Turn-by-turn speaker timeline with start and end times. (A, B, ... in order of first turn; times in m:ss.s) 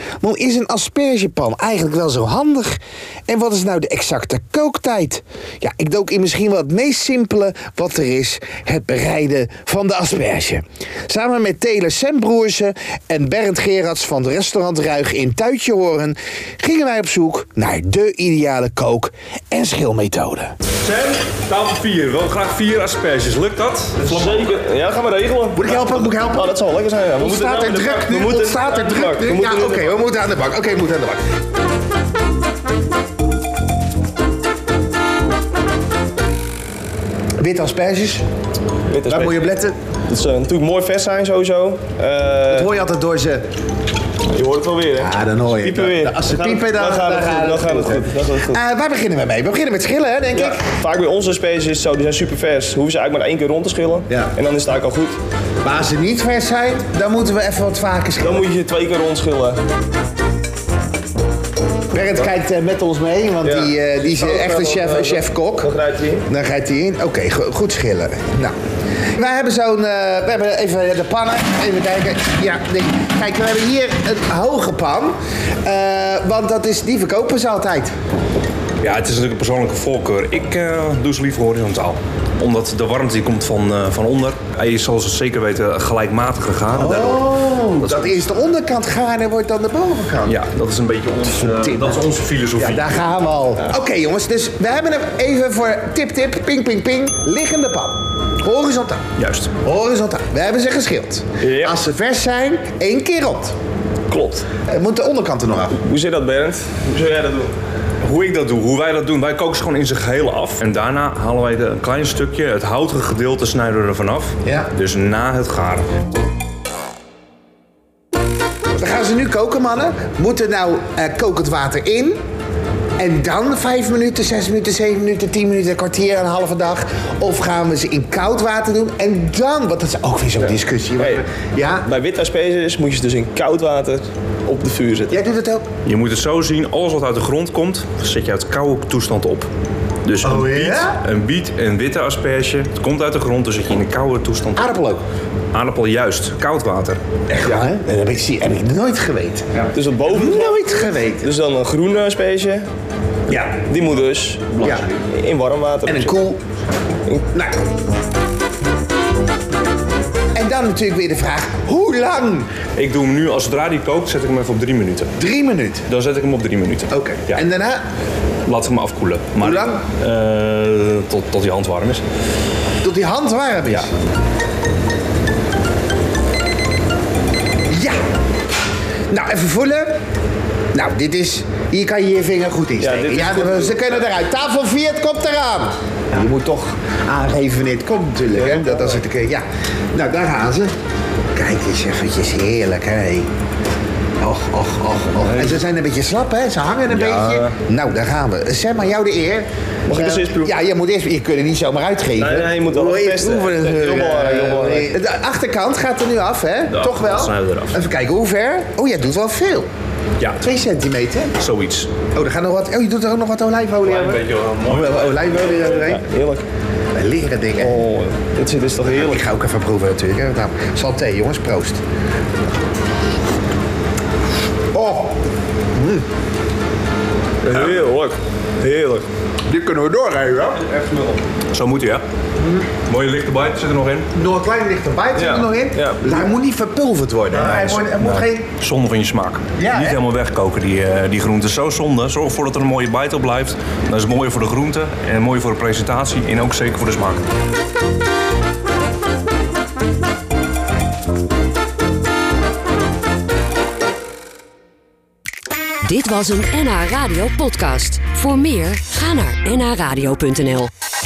0:00.2-0:20.5 A
0:20.8-0:24.5 B
0:24.0-0:30.0 C
0:25.5-0:26.6 A
0:27.2-0:31.2 A
0:37.4-0:38.2 A
0:38.9-0:39.4 C
0:39.1-0:39.7 A
0:40.1-0:42.7 C
0:42.5-0:43.5 A
0:44.3-0:48.6 C
0:45.0-0:50.6 A
0:50.3-0:55.2 C
0:54.1-0:54.4 A
0:55.6-0:58.5 A
0:58.2-0:59.6 C
1:01.9-1:05.7 A
1:03.4-1:06.3 C
1:06.3-1:08.5 A
1:09.1-1:17.9 A
1:18.8-1:28.2 B
1:26.7-1:30.4 A
1:30.2-1:33.0 B
1:31.3-1:32.0 A
1:32.6-1:39.0 A
1:39.2-1:39.5 B
1:39.6-1:43.6 A
1:41.4-1:41.8 C
1:44.1-1:44.5 C
1:44.6-1:45.8 A
1:45.7-1:47.5 C
1:48.0-1:55.8 B
1:54.4-1:54.7 A
1:58.8-2:02.2 A
2:03.0-2:11.9 A
2:10.4-2:11.2 C
2:11.8-2:15.2 C
2:15.1-2:15.7 A
2:15.8-2:19.5 B
2:20.0-2:24.7 B
2:20.2-2:21.0 A
2:24.6-2:25.0 A
2:25.5-2:27.0 B
2:27.3-2:31.3 A
2:29.7-2:32.7 C
2:33.3-2:33.6 A
2:33.6-2:36.2 C
2:34.6-2:34.9 B
2:35.9-2:36.4 A
2:37.3-2:37.6 A
2:40.3-2:42.5 A
2:42.7-2:45.1 B
2:45.2-2:45.8 A
2:45.9-2:47.4 B
2:46.9-2:47.8 A
2:48.4-2:52.0 B
2:49.4-2:49.8 A
2:52.8-2:53.9 A
2:57.7-2:58.0 A
2:59.1-2:59.9 A
3:00.7-3:10.7 A
3:02.8-3:04.0 C
3:08.4-3:09.0 C
3:11.3-3:13.3 A
3:14.2-3:29.7 A
3:15.2-3:15.6 B
3:16.9-3:17.5 B
3:19.9-3:20.5 C
3:22.2-3:24.9 C
3:26.7-3:27.8 B
3:30.2-3:30.5 B
3:30.4-3:31.4 A
3:31.4-3:31.9 B
3:32.1-3:36.0 A
3:33.8-3:35.7 B
3:35.5-3:36.4 C
3:36.9-3:37.8 A
3:37.6-3:39.2 C
3:38.8-3:41.8 A
3:44.7-3:45.2 A
3:45.8-3:46.0 A
3:47.4-3:49.1 C
3:49.5-3:50.6 A
3:50.7-3:51.2 C
3:51.5-3:52.0 B
3:52.4-3:52.6 A
3:52.8-3:54.1 B
3:54.1-3:58.4 A
3:55.2-3:56.3 C
3:57.3-4:07.2 B
3:59.6-4:00.0 A
4:15.8-4:20.7 D